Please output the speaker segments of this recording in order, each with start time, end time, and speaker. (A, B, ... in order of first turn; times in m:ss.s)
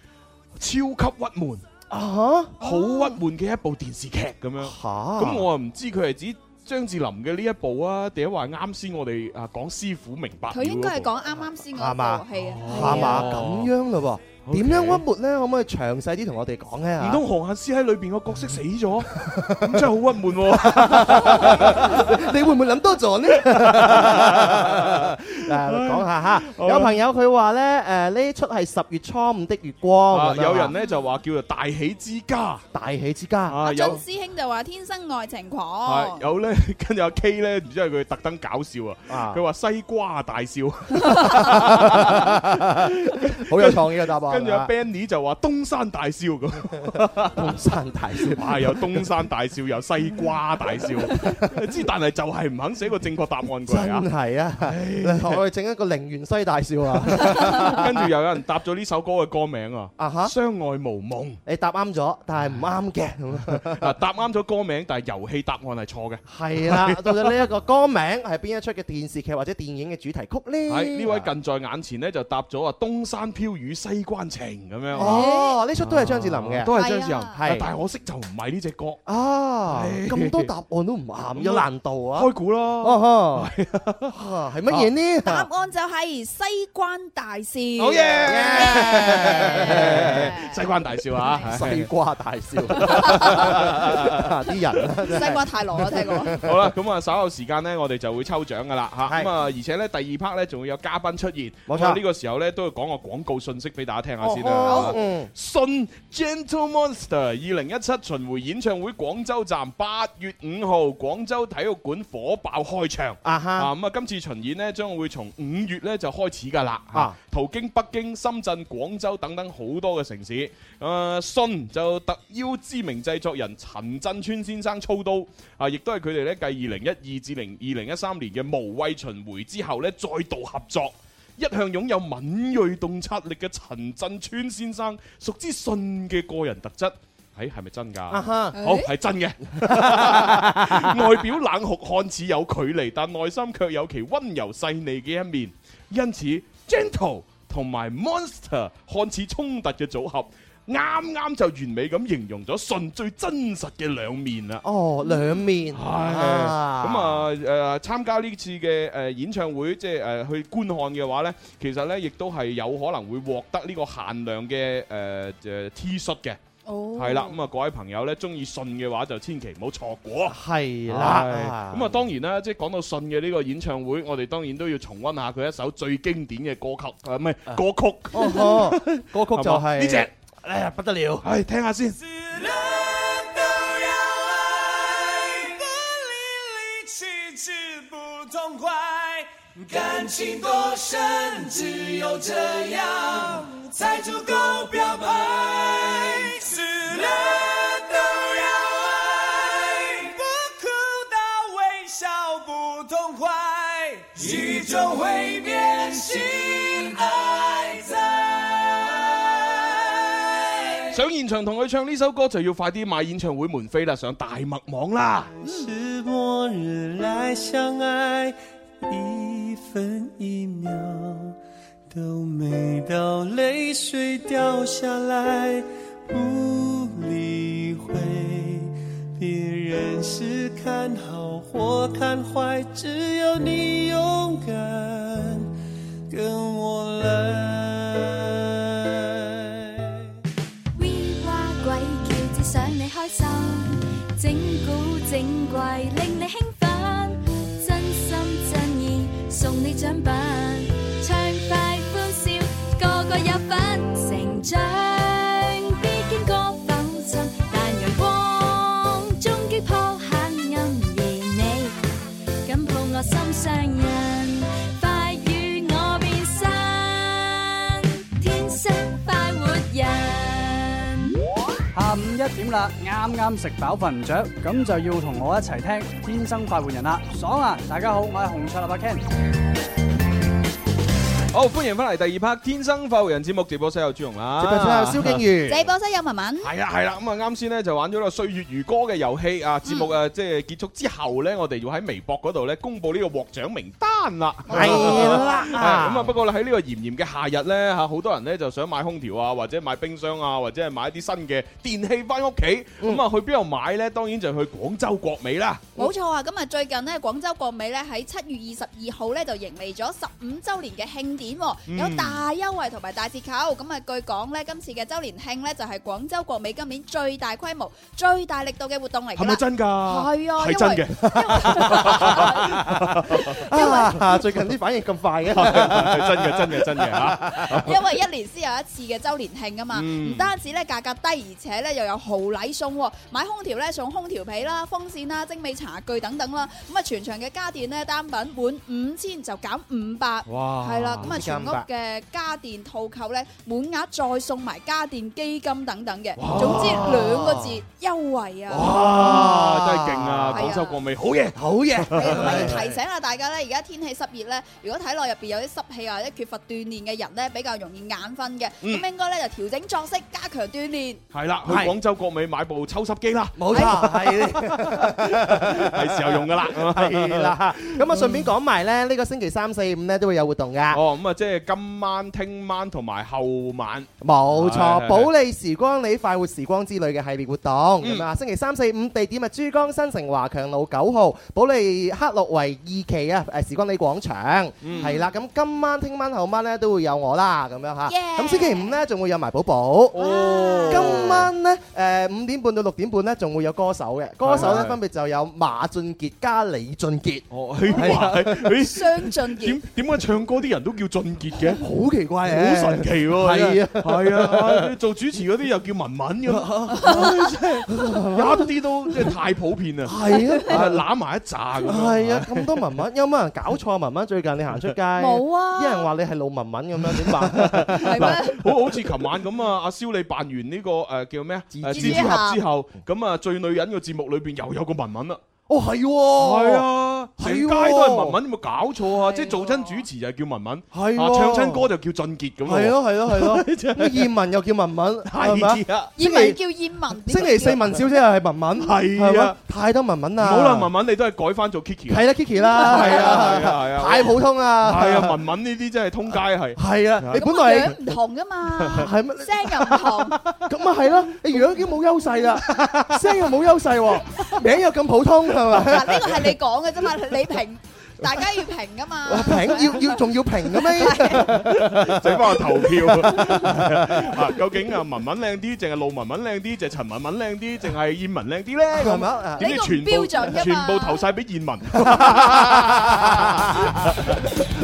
0:00.6-0:01.6 A
0:01.9-0:02.6 B
0:02.6-0:11.1 A
0:02.6-0:03.2 C
0:04.6-0:05.5 B
0:10.5-0:13.3 C
0:11.7-0:17.2 B
0:12.4-0:13.7 A
0:14.4-0:15.0 A
0:17.0-0:22.3 A
0:19.1-0:19.9 B
0:20.5-0:30.7 B
0:23.3-0:27.0 A
0:30.1-0:32.6 A
0:32.7-0:34.0 B
0:33.5-0:34.0 A
0:33.6-0:36.2 C
0:35.9-0:47.6 A
0:39.1-0:39.4 B
0:41.3-0:44.7 B
0:47.3-0:49.1 B
0:48.2-0:54.0 A
0:50.8-0:51.5 B
0:53.7-0:58.1 B
0:54.6-0:55.4 A
0:57.1-1:01.4 A
1:00.0-1:00.3 B
1:01.5-1:03.9 B
1:03.7-1:07.4 A
1:06.3-1:11.3 B
1:10.7-1:15.2 A
1:15.0-1:16.7 B
1:15.0-1:15.6 C
1:15.8-1:19.0 A
1:16.7-1:17.4 C
1:17.3-1:17.7 B
1:19.1-1:23.5 B
1:19.7-1:20.5 A
1:21.3-1:24.1 A
1:24.1-1:25.5 B
1:25.2-1:30.6 C
1:27.8-1:31.9 A
1:28.2-1:30.4 B
1:31.2-1:31.5 C
1:31.4-1:36.7 B
1:32.7-1:34.3 A
1:32.9-1:33.2 C
1:35.1-1:36.4 C
1:36.4-2:34.6 A
1:41.7-1:42.0 B
1:44.2-1:45.3 B
1:44.6-1:45.0 C
1:53.2-1:53.7 B
2:18.1-2:18.6 B
2:18.6-2:18.9 C
2:19.6-2:21.2 B
2:34.6-2:37.3 B
2:35.7-2:46.4 A
2:46.7-2:47.4 C
2:47.0-2:50.4 A
2:50.3-2:52.0 B
2:50.9-3:00.1 A
2:58.1-3:01.3 B
3:01.2-3:02.0 A
3:02.5-3:29.7 D
3:30.9-3:35.3 A
3:35.4-3:41.4 D
3:41.9-3:55.5 D
3:56.1-4:00.0 D
4:00.8-4:21.8 E
4:22.4-4:31.1 E
4:31.7-4:39.0 F
4:41.3-4:45.2 A
4:44.4-4:45.7 B
4:45.5-4:46.5 C
4:46.4-5:05.7 A
4:49.7-4:49.9 C
4:54.5-4:55.5 C
4:54.5-4:56.2 B
5:05.8-5:24.2 C
5:11.7-5:12.2 A
5:19.2-5:23.5 A
5:21.2-5:27.7 B
5:25.3-5:27.8 A
5:27.5-5:48.8 C
5:29.7-5:30.3 A
5:40.3-5:41.1 A
5:41.0-5:41.7 B
5:46.2-5:47.0 A
5:46.3-5:47.6 B
5:48.5-5:52.6 A
5:48.6-5:50.5 B
5:50.3-5:50.8 C
5:51.4-5:52.8 B
5:51.9-6:01.0 C
6:01.1-6:08.3 A
6:01.4-6:01.7 B
6:03.4-6:10.8 B
6:03.5-6:03.8 C
6:10.7-6:15.1 A
6:14.0-6:30.0 B
6:17.8-6:18.1 A
6:24.6-6:25.0 A
6:24.7-6:25.1 C
6:27.9-6:28.8 C
6:29.9-6:31.3 A
6:30.0-6:31.2 C
6:30.7-6:38.6 B
6:34.2-6:34.8 A
6:37.3-6:41.6 A
6:37.7-6:39.6 C
6:41.4-6:44.7 B
6:42.2-6:52.5 A
6:46.3-6:48.5 B
6:46.8-6:47.0 C
6:49.8-6:50.8 B
6:50.1-6:50.5 C
6:51.6-6:58.5 B
6:55.0-6:55.9 C
6:57.0-7:05.2 A
6:57.8-6:58.4 C
7:01.5-7:02.3 B
7:01.7-7:02.4 C
7:05.5-7:08.2 B
7:06.2-7:14.1 A
7:09.0-7:09.8 C
7:10.7-7:11.7 B
7:12.4-7:16.4 B
7:15.1-7:15.9 A
7:16.0-7:17.8 C
7:17.1-7:20.7 B
7:18.6-7:19.4 A
7:20.2-7:27.2 A
7:21.9-7:25.2 B
7:22.4-7:23.2 C
7:26.6-7:27.8 B
7:27.2-7:30.2 C
7:28.7-7:36.4 B
7:35.6-7:41.3 C
7:39.1-7:44.4 B
7:41.3-7:54.2 A
7:48.7-7:49.6 B
7:49.4-7:51.1 C
7:51.8-7:54.0 B